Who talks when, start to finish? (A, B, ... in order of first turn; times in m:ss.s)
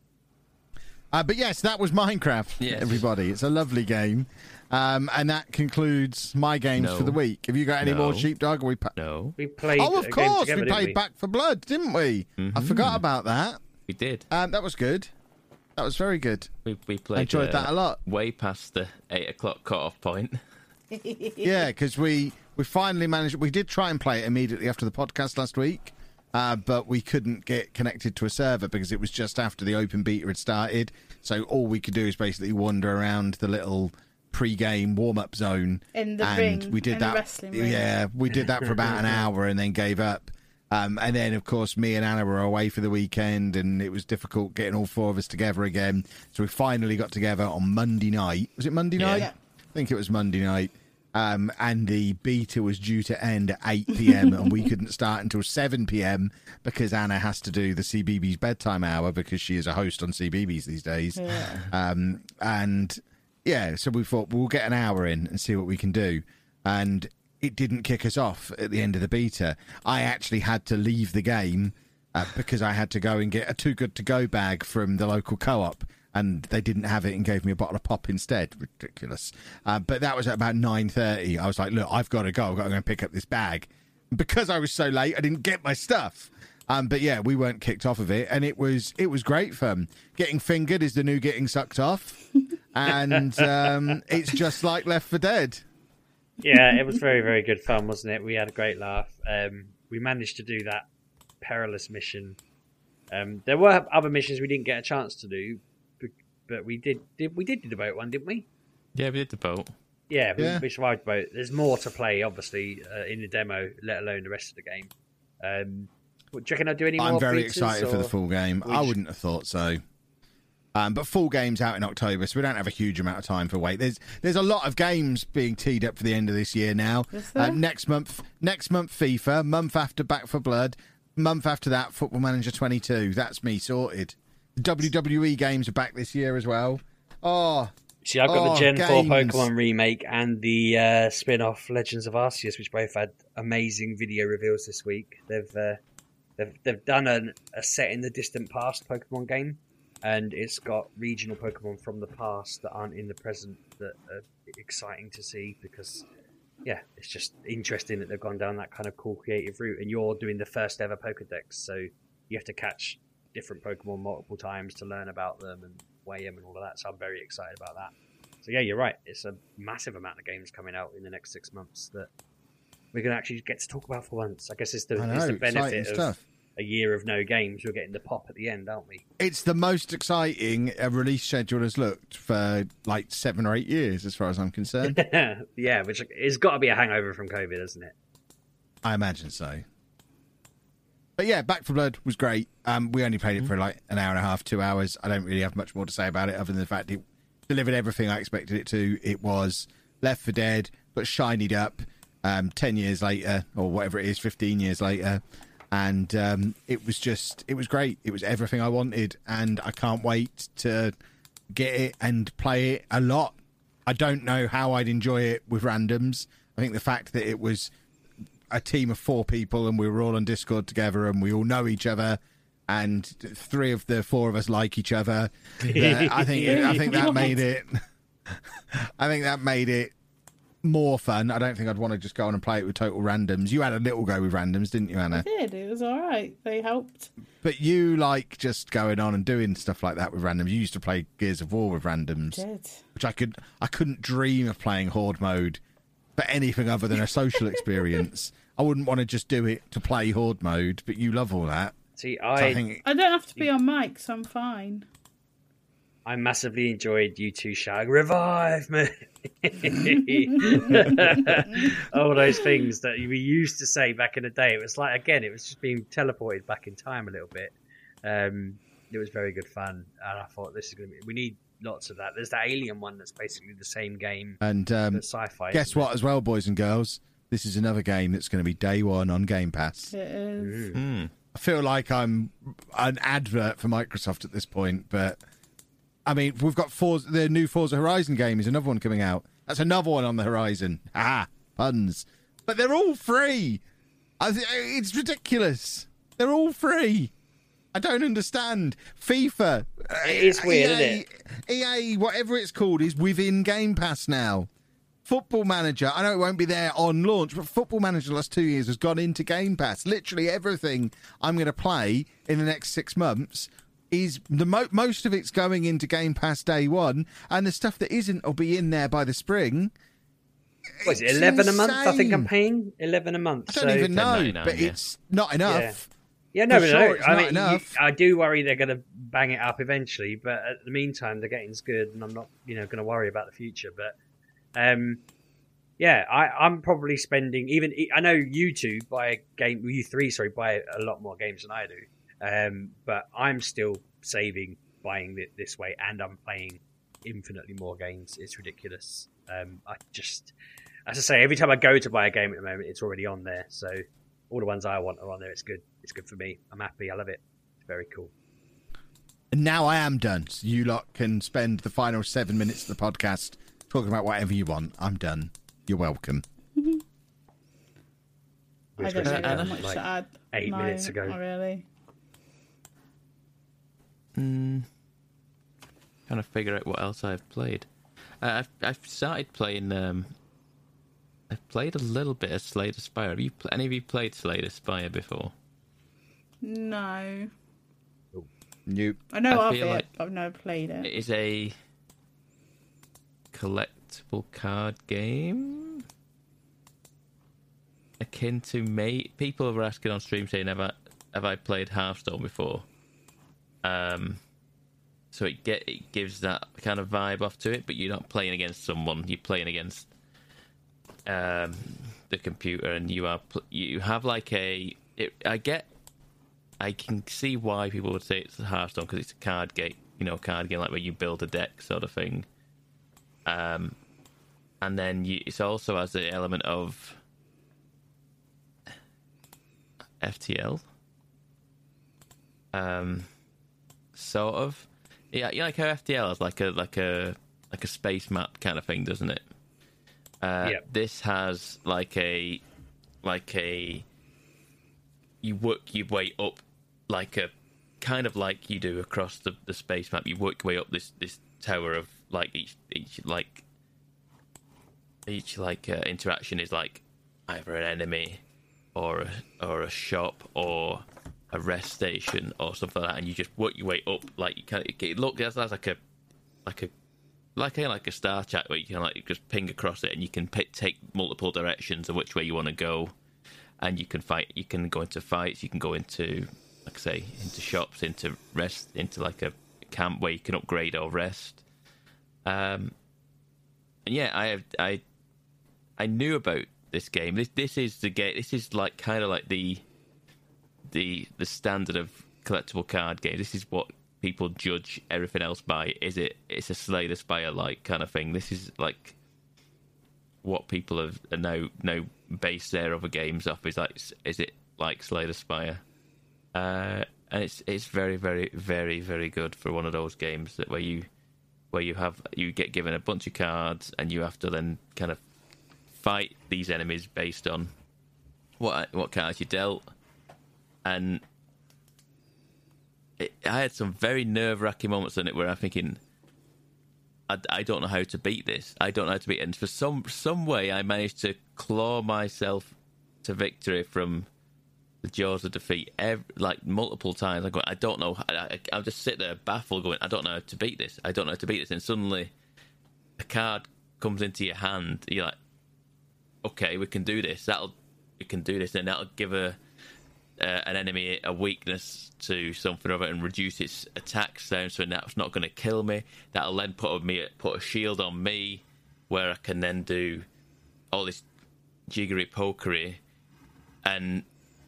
0:01.1-0:08.9 A
0:02.6-0:03.0 B
0:06.8-0:07.2 B
0:07.8-0:08.3 B
0:09.0-0:09.4 B
0:09.4-0:11.0 C
0:09.8-0:13.6 A
0:12.4-0:13.0 B
0:13.9-0:14.3 B
0:14.3-0:15.1 A
0:15.8-0:16.5 A
0:16.6-0:20.4 B
0:17.2-0:18.0 A
0:20.9-0:21.7 D
0:21.4-1:32.2 A
0:36.0-0:37.9 D
0:38.7-0:39.2 C
0:49.0-0:49.3 B
0:54.1-0:54.4 D
1:01.2-1:01.6 D
1:32.7-1:35.6 A
1:32.9-1:34.2 C
1:36.4-1:40.9 C
1:41.4-1:42.4 C
1:43.1-1:48.5 C
1:49.0-1:49.7 B
1:50.1-1:59.0 C
1:50.4-1:50.6 A
1:57.0-1:59.8 A
2:00.8-2:17.7 A
2:07.1-2:07.6 D
2:18.0-2:25.8 C
2:18.2-2:19.5 A
2:26.4-2:36.0 C
2:36.6-2:47.9 C
2:48.4-2:52.1 C
2:52.9-2:59.0 C
2:55.0-2:56.2 A
2:59.2-3:05.0 A
3:04.8-3:08.0 C
3:08.8-3:09.6 A
3:11.2-3:30.9 A
3:31.5-3:37.7 A
3:38.5-3:49.9 A
3:45.7-3:47.2 C
3:46.4-3:47.4 D
3:50.6-3:55.3 A
3:55.1-3:57.1 D
3:57.4-4:02.4 A
4:02.3-4:02.8 D
4:03.0-4:05.6 A
4:06.2-4:11.8 A
4:12.0-4:12.6 C
4:12.4-4:12.8 A
4:12.8-4:14.9 D
4:16.0-4:34.4 C
4:20.2-4:21.8 D
4:34.4-4:39.9 A
4:34.9-4:35.9 C
4:39.9-4:40.7 D
4:40.4-4:40.8 C
4:40.8-4:41.1 B
4:41.3-4:45.2 A
4:46.1-4:53.6 A
4:54.2-4:57.1 A
4:57.7-5:04.5 A
5:00.0-5:01.0 C
5:05.1-5:19.7 A
5:20.8-5:22.3 A
5:20.8-5:23.9 C
5:23.5-5:25.9 A
5:23.9-5:24.8 B
5:25.5-5:25.8 C
5:26.3-5:34.0 C
5:26.5-5:27.8 A
5:34.6-5:35.0 C
5:35.8-5:50.3 C
5:50.9-5:58.1 C
5:59.3-6:06.2 A
6:08.8-6:11.2 C
6:08.8-6:11.6 D
6:09.0-6:09.6 B
6:14.2-6:14.7 B
6:16.1-6:17.7 B
6:18.2-6:20.1 B
6:21.3-6:25.3 B
6:26.4-6:27.3 D
6:28.7-6:29.0 A
6:29.1-6:30.9 D
6:29.3-6:29.9 B
6:30.8-6:31.6 B
6:33.3-6:35.8 B
6:38.0-6:42.6 B
6:43.6-6:44.2 B
6:45.1-6:49.9 B
6:51.1-6:55.7 B
6:56.6-7:02.3 B
7:03.2-7:03.8 B
7:04.6-7:07.0 B
7:10.0-7:10.6 B
7:12.5-7:13.1 B
7:14.0-7:19.2 B
7:20.2-7:22.4 B
7:23.0-7:23.8 B
7:25.2-7:33.4 B
7:35.1-7:38.2 B
7:38.8-7:45.8 B
7:46.5-7:46.7 B
7:47.4-7:52.9 B
7:53.6-8:01.4 B
8:02.2-8:02.7 B
8:03.9-8:04.8 B
8:05.8-8:09.6 B
8:10.7-8:19.0 B
8:20.2-8:25.6 B
8:26.3-8:30.9 B
8:31.5-8:35.0 B
8:35.7-8:37.5 B
8:38.4-8:39.7 B
8:40.6-8:41.0 B
8:43.0-8:45.8 B
8:47.1-8:54.1 B
8:54.8-9:02.1 B
9:03.0-9:05.2 B
9:06.2-9:09.4 B
9:10.2-9:20.1 B
9:20.7-9:21.0 B
9:21.7-9:22.8 B
9:23.6-9:24.0 B